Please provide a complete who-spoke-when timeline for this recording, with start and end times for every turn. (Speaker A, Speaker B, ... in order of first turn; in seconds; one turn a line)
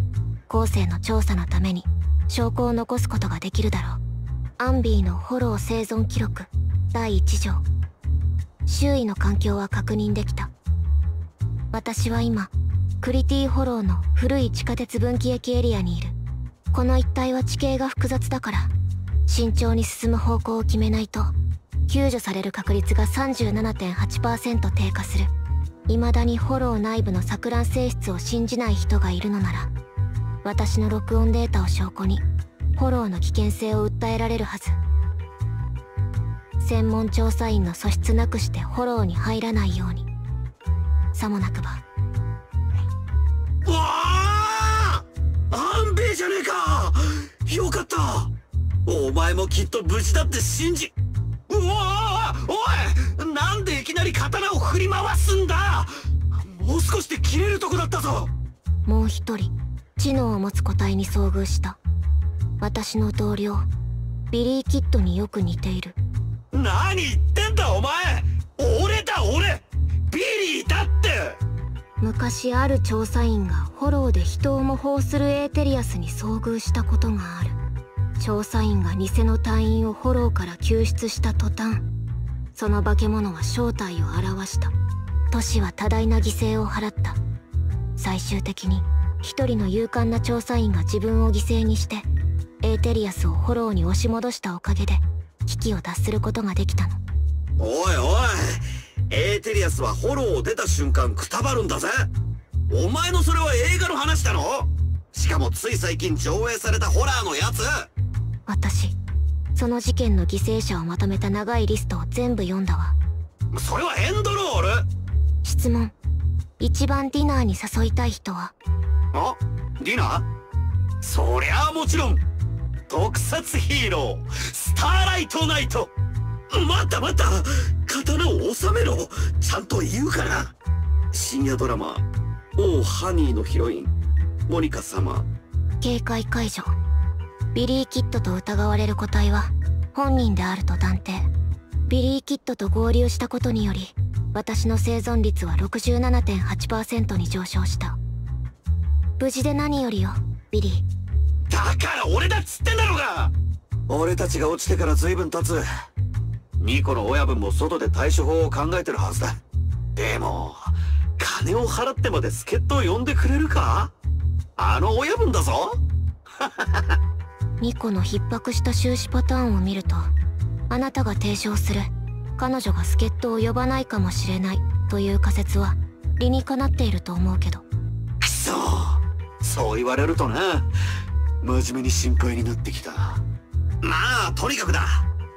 Speaker A: 0.5-4.0
Speaker A: 4.6-7.6
Speaker A: 8.7-10.5
Speaker A: 11.7-16.1
Speaker A: 16.7-18.7
Speaker A: 19.3-21.3
Speaker A: 21.9-25.3
Speaker A: 25.9-29.7
Speaker A: 30.4-32.2
Speaker A: 32.8-34.8
Speaker A: 36.6-40.1
Speaker A: 41.1-41.8
Speaker B: 43.6-48.3
Speaker B: 48.9-50.9
Speaker B: 51.5-58.3
Speaker A: 58.9-61.8
Speaker A: 62.6-63.7
Speaker A: 64.3-66.0
Speaker B: 66.5-71.4
Speaker A: 72.0-77.6
Speaker A: 78.2-81.8
Speaker A: 82.5-84.7
Speaker A: 85.3-87.2
Speaker A: 88.0-92.1
Speaker A: 92.6-97.0
Speaker B: 97.6-102.1
Speaker B: 102.7-107.9
Speaker A: 108.5-109.0
Speaker A: 109.5-113.0
Speaker B: 113.5-114.8
Speaker A: 115.4-115.9
Speaker A: 116.6-118.5
Speaker B: 119.1-120.2
Speaker B: 121.0-122.2
Speaker B: 122.9-125.9
Speaker B: 126.5-130.5
Speaker B: 131.1-132.1
Speaker B: 132.6-133.9
Speaker B: 134.5-135.3
Speaker A: 135.8-136.7
Speaker A: 137.5-141.3
Speaker A: 141.9-148.0
Speaker A: 149.2-150.8
Speaker B: 151.5-153.3
Speaker B: 153.9-155.7
Speaker B: 156.6-159.4
Speaker B: 159.9-163.9
Speaker B: 164.6-165.8
Speaker B: 166.4-167.0
Speaker A: 167.6-170.1
Speaker A: 170.7-177.6
Speaker B: 178.2-180.7
Speaker B: 181.4-183.2
Speaker B: 183.8-185.0